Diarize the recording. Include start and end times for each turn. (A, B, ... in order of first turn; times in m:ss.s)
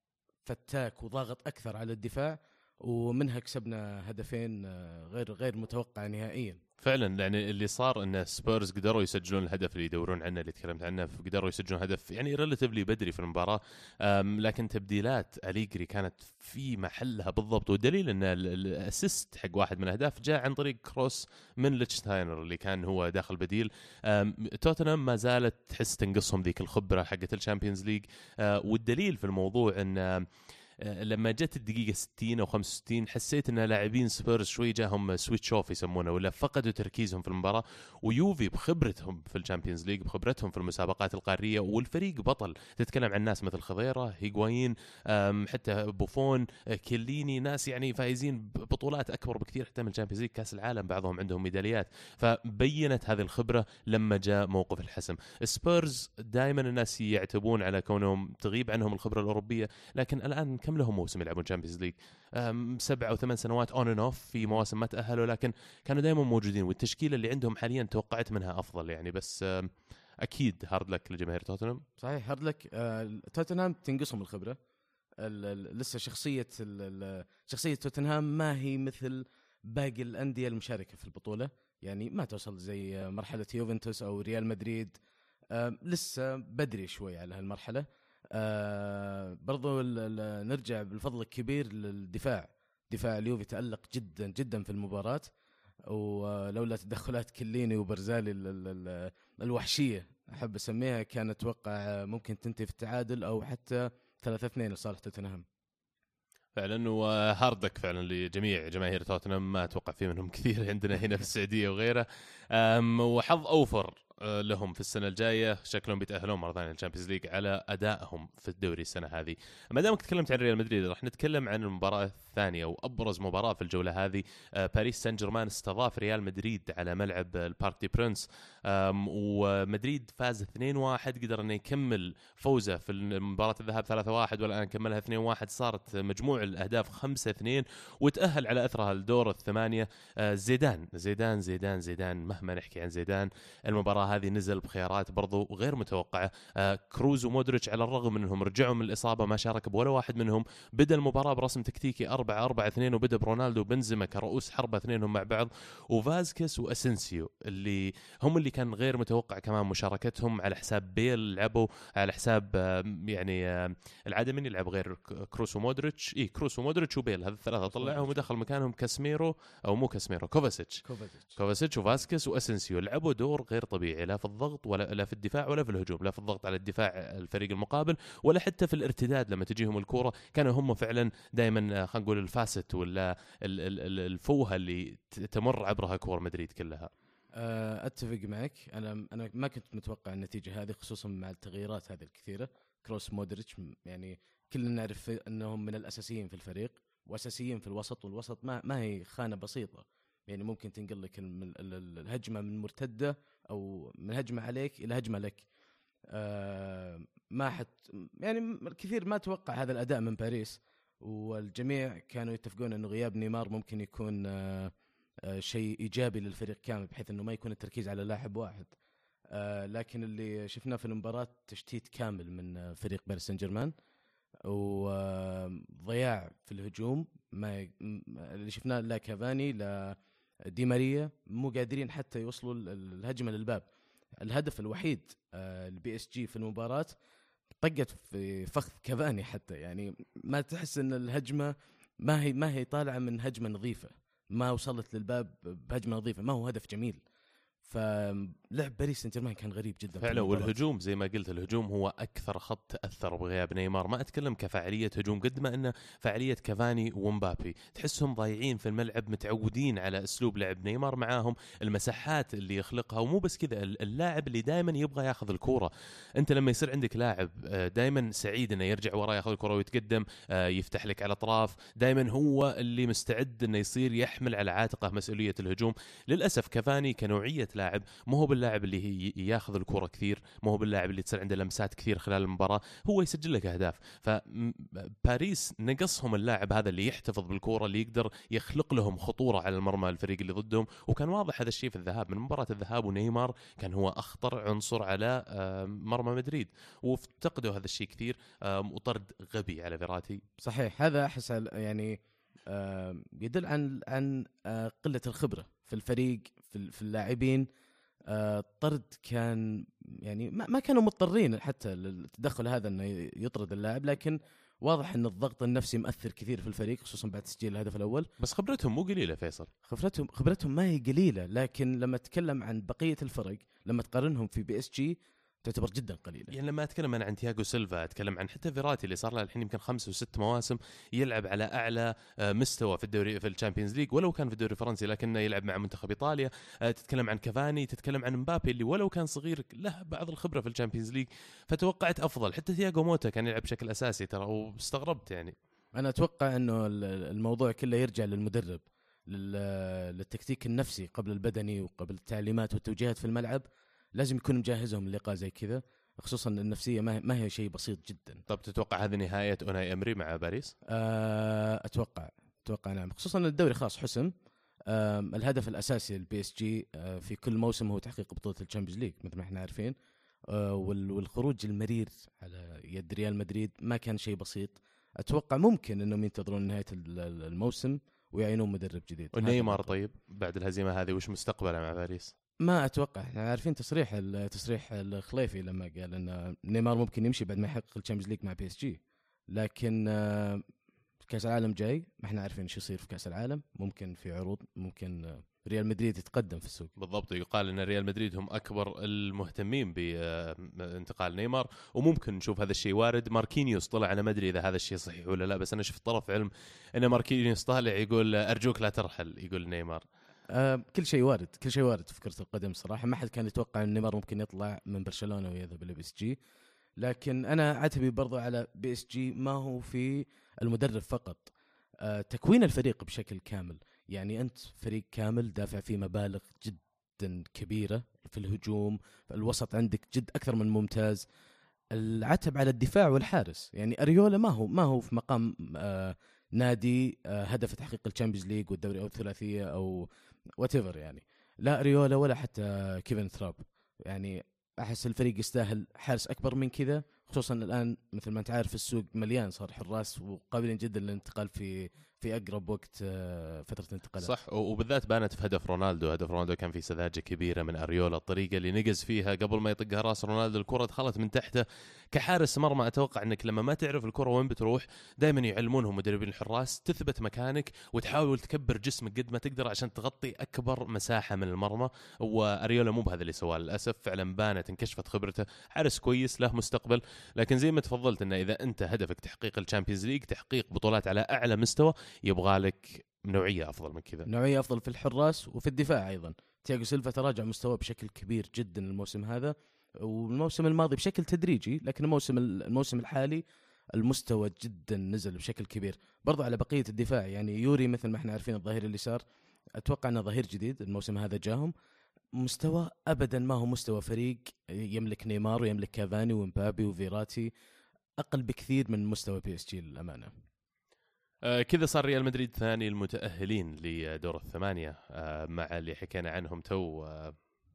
0:00.4-0:06.6 A
0:06.8-0:30.3 B
0:30.8-1:09.7 B
1:10.2-1:11.8 B
1:12.0-1:14.6 A
1:15.2-1:24.9 A
1:25.5-1:35.3 A
1:35.9-1:45.4 A
1:46.5-2:50.8 B
2:47.7-2:48.2 A
2:50.8-2:51.3 A
2:51.3-3:06.9 B
3:07.4-3:25.4 A
3:26.1-3:34.7 A
3:35.3-3:38.7 A
3:39.3-3:43.7 A
3:44.4-3:50.0 A
3:50.5-3:53.6 A
3:54.2-3:56.9 A
3:57.6-4:07.0 A
4:07.6-4:10.6 A
4:10.0-5:00.2 B
5:00.4-5:07.4 A
5:08.1-5:18.1 A
5:18.2-5:19.5 B
5:19.6-5:26.4 A
5:26.3-5:45.4 B
5:45.7-5:58.2 A
5:58.3-6:00.5 B
6:00.7-6:04.1 A
6:04.7-6:09.7 A
6:10.3-6:19.7 A
6:19.1-6:22.1 B
6:22.4-6:28.8 A
6:29.3-6:30.4 A
6:31.0-6:36.7 A
6:36.8-6:49.8 B
6:50.3-6:56.2 A
6:56.8-7:01.3 A
7:01.8-7:11.0 A
7:11.7-7:19.9 A
7:20.4-7:34.1 A
7:34.0-8:04.1 B
8:04.1-8:13.2 A
8:13.7-8:19.0 A
8:19.6-8:21.5 A
8:22.2-8:27.3 A
8:28.0-8:30.1 A
8:31.2-8:37.2 B